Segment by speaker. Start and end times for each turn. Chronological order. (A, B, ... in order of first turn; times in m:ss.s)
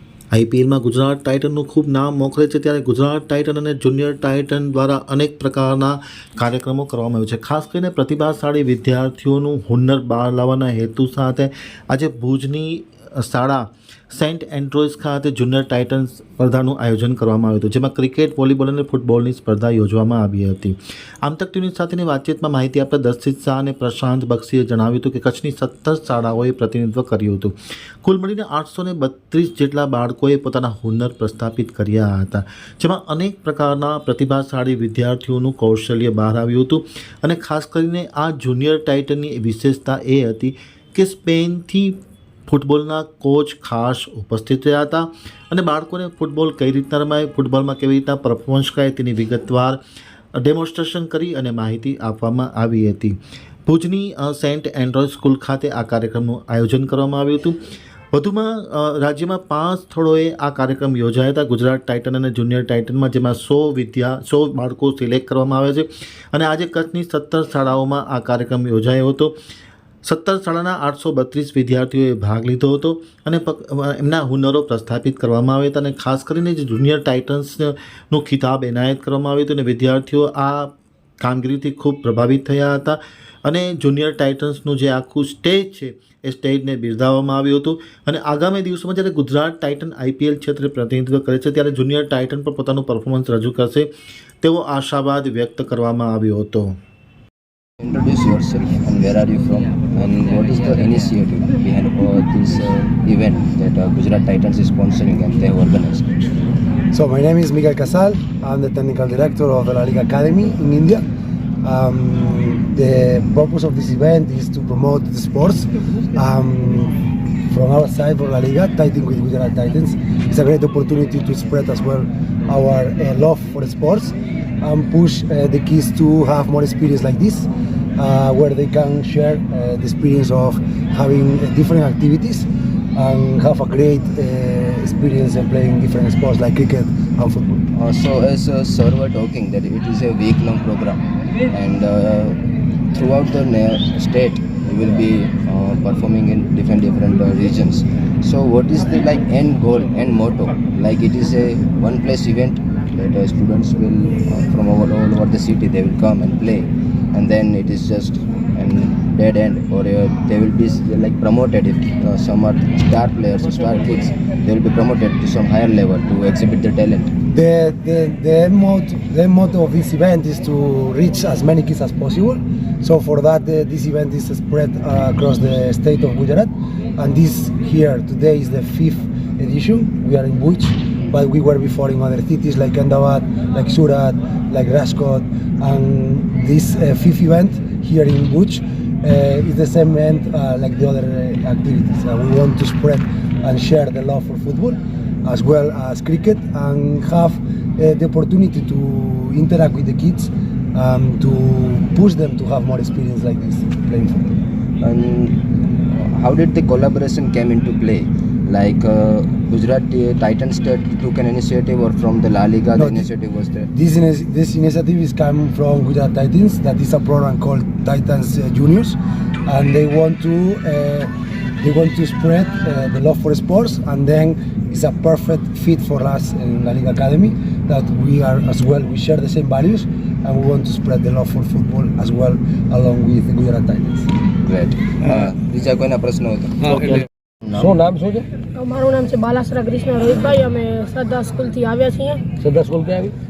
0:00.3-0:49.8 A
0:50.4-0:57.6 A
0:58.1-1:09.4 A
1:10.0-1:33.9 A
1:34.4-1:36.8 A
1:37.8-1:46.1 B
1:46.9-1:51.0 C
1:51.6-1:57.0 C
1:57.5-2:17.7 C
2:17.7-2:22.4 B
2:22.9-2:47.1 B
2:47.3-3:24.4 C
3:24.8-3:33.7 B
3:32.8-3:33.1 C
3:33.7-3:41.1 C
3:41.6-3:54.1 C
3:54.4-3:57.7 B
3:56.6-3:58.3 D
3:58.6-4:02.2 E
4:02.4-4:03.1 D